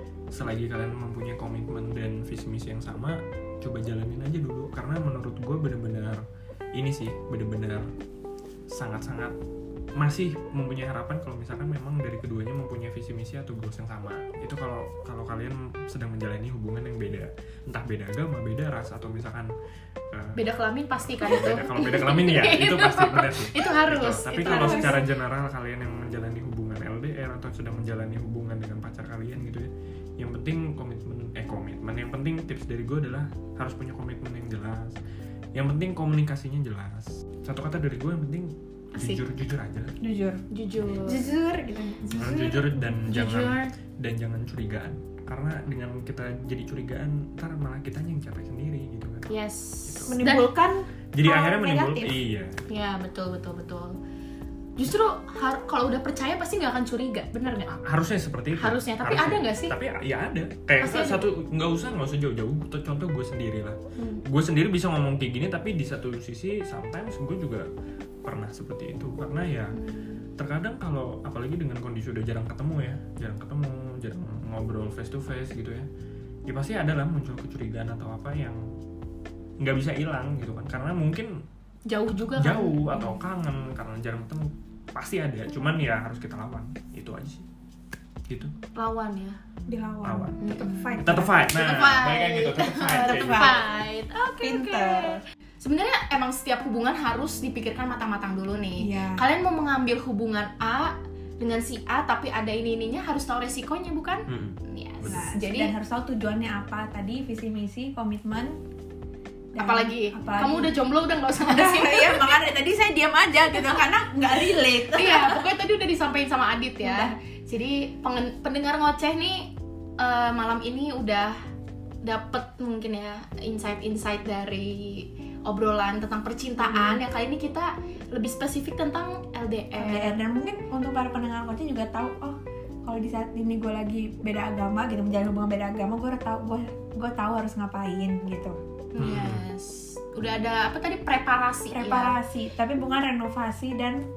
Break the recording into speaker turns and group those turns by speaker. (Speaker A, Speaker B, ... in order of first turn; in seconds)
Speaker A: 0.3-6.2, 6.8-7.8, 8.7-9.3, 10.0-19.5, 20.1-20.4, 21.0-35.0, 35.5-40.0, 42.2-49.3, 49.9-50.1, 51.1-52.5, 57.7-67.7, 68.2-69.8, 70.4-75.9, 76.5-78.6, 79.6-81.4, 82.4-87.4, 90.0-93.6, 104.3-105.2, 139.0-139.4
Speaker B: 20.4-25.0, 39.0-39.2, 40.5-41.3, 42.2-43.7, 49.3-50.5, 52.7-54.0, 54.8-57.7, 58.6-59.8, 60.8-61.2, 64.0-64.2, 69.7-70.2, 81.9-83.2, 88.8-89.4, 90.4-91.0, 91.5-105.7, 109.6-112.4, 115.0-121.3, 122.0-130.2, 138.9-142.2
Speaker C: 24.4-25.0, 40.0-40.4, 41.0-42.6, 50.1-52.2, 89.7-91.5, 93.0-93.7, 94.4-95.2, 98.8-99.2, 105.1-108.6, 109.5-110.8, 111.4-115.5, 116.8-117.1, 126.6-127.0, 129.8-138.6, 141.7-144.1